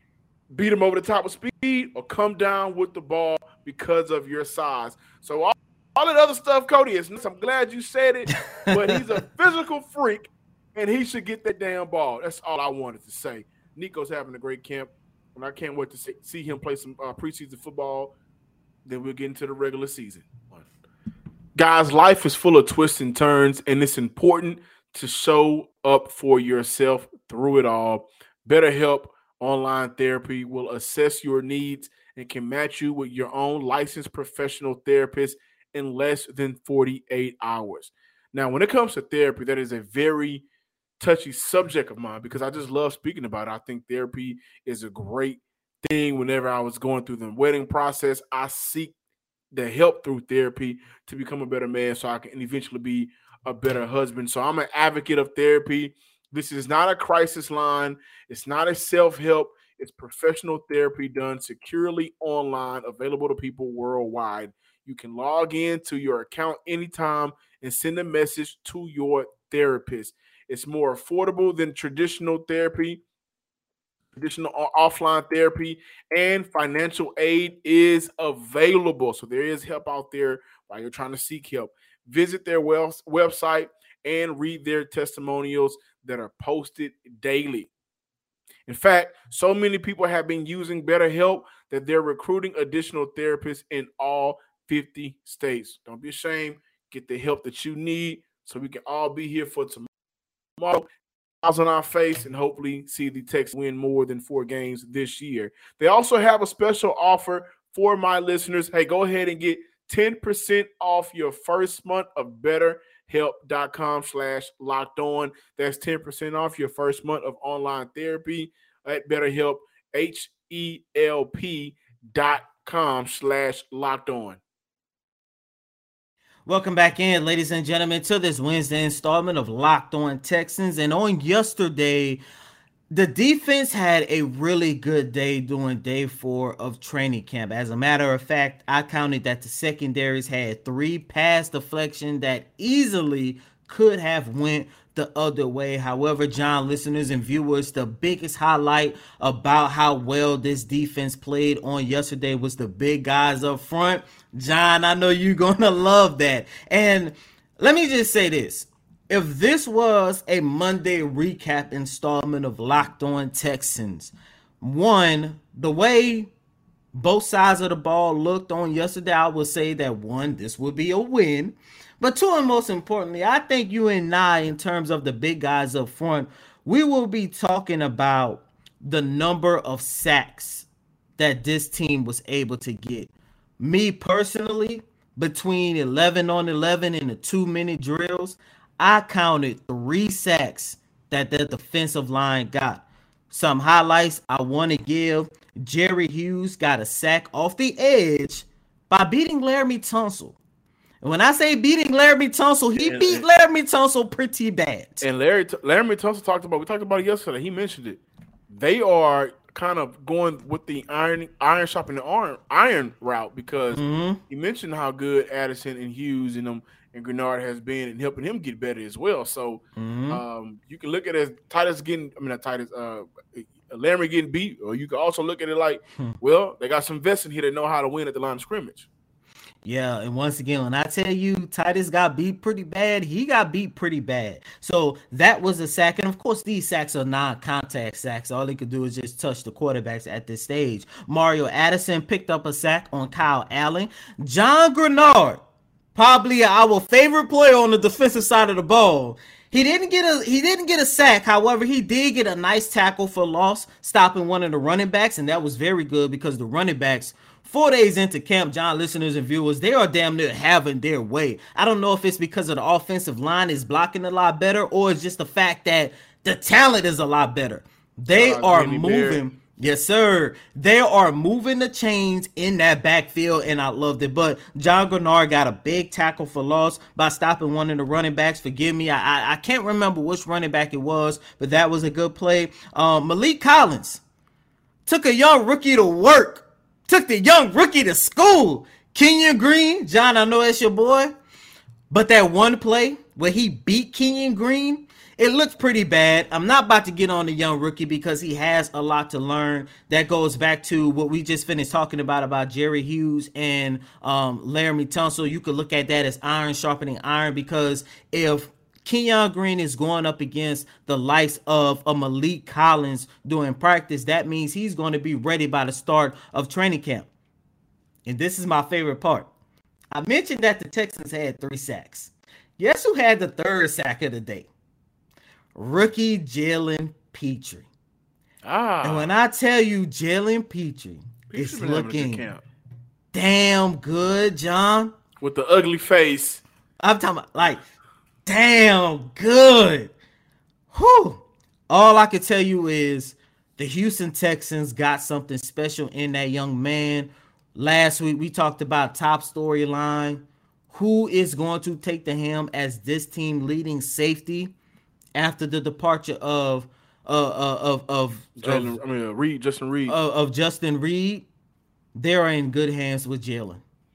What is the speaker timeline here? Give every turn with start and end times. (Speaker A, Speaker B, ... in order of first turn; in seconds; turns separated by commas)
Speaker A: 0.5-18.1, Speaker B: 8.5-9.0, Speaker A: 18.8-20.7, Speaker A: 21.6-40.4, Speaker A: 41.0-48.9, Speaker A: 49.5-73.0, Speaker A: 74.2-87.7, Speaker A: 88.7-99.9, Speaker A: 100.6-100.9, Speaker A: 101.4-124.4, Speaker B: 126.5-132.2, Speaker B: 132.9-166.3, Speaker B: 166.9-180.7, Speaker B: 181.2-200.4, Speaker B: 201.0-205.0, Speaker A: 202.8-203.2, Speaker A: 205.0-228.9, Speaker B: 213.7-214.2, Speaker B: 219.8-220.2, Speaker B: 229.6-245.4, Speaker B: 245.9-284.0, Speaker A: 268.1-269.2, Speaker B: 284.9-291.1, Speaker B: 291.9-317.1, Speaker B: 318.1-319.3, Speaker B: 319.9-324.5, Speaker B: 325.5-327.6, Speaker A: 328.4-329.1, Speaker B: 328.8-332.2, Speaker A: 331.3-332.4, Speaker B: 333.1-334.9, Speaker A: 335.2-336.4, Speaker B: 336.8-337.6, Speaker B: 338.2-339.9, Speaker B: 340.7-354.5, Speaker B: 355.1-358.8, Speaker A: 358.4-359.9, Speaker B: 359.9-361.2, Speaker B: 361.9-363.6